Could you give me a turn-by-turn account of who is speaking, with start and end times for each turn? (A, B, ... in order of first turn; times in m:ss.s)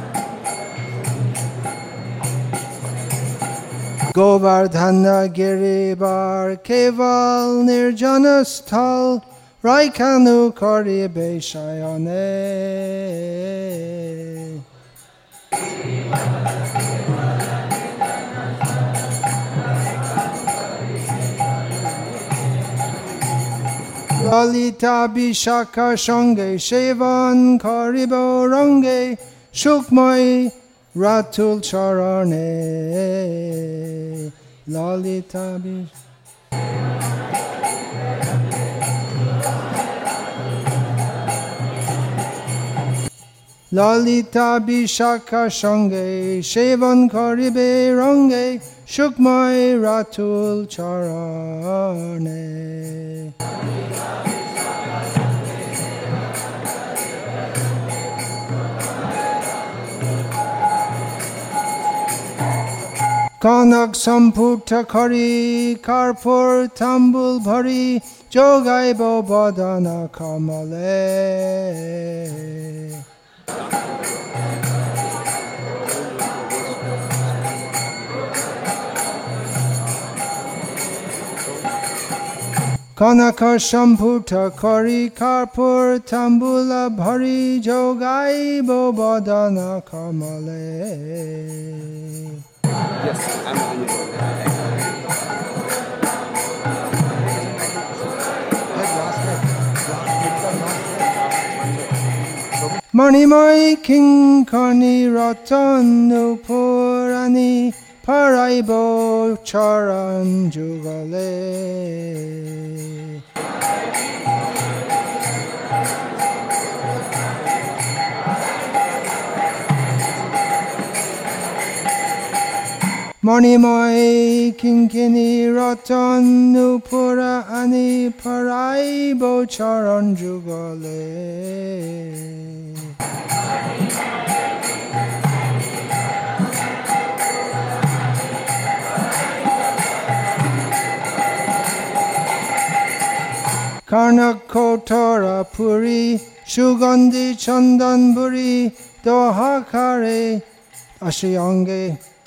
0:04.1-0:14.6 A
0:24.1-0:35.9 A
0:43.7-0:53.3 A
1:03.4-1:13.0 A
1:22.9-1:32.4 A
1:42.9-1:53.2 A
2:03.2-2:12.9 A
2:23.8-2:30.4 A
2:31.0-2:32.0 A